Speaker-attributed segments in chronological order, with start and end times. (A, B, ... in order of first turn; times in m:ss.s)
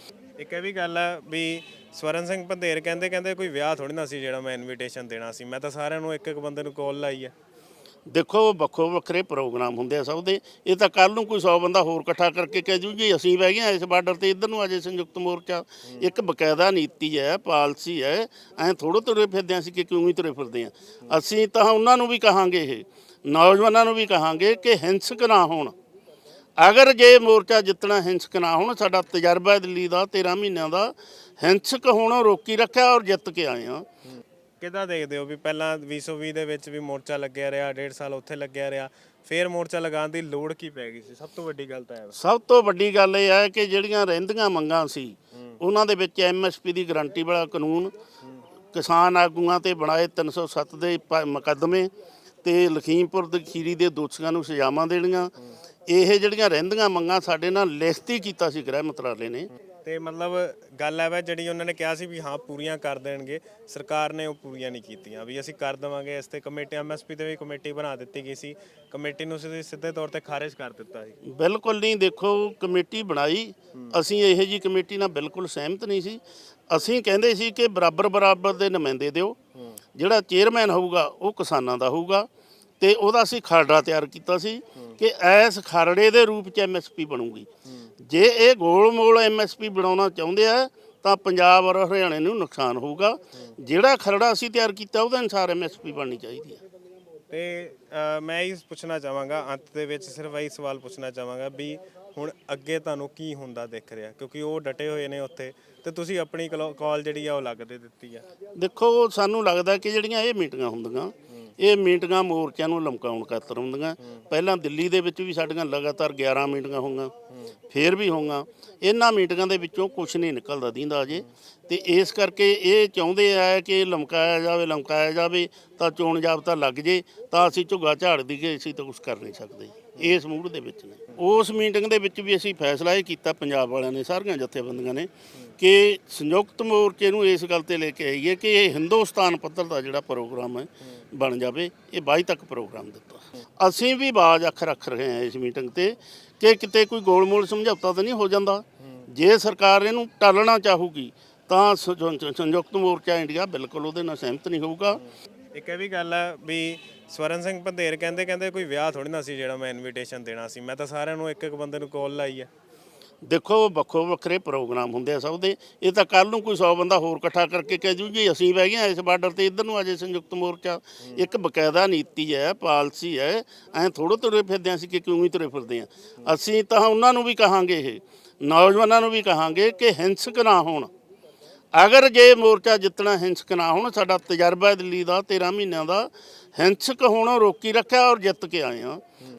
0:00.4-0:07.3 A
0:08.1-0:25.7 B
0:26.6-0:33.9 B
0:34.6-0:42.2 A
0:42.2-0:47.9 B
0:48.7-0:51.9 B
0:52.4-0:55.3 B
0:55.9-0:59.5 B
0:59.8-1:11.2 A
1:11.2-1:19.4 B
1:20.0-1:22.3 B
1:22.8-1:27.5 B
1:28.0-1:36.6 B
1:37.3-1:48.3 A
1:48.6-1:57.1 B
1:57.7-2:35.0 B
2:35.6-2:42.5 A
2:43.2-3:00.9 B
3:01.7-3:09.0 B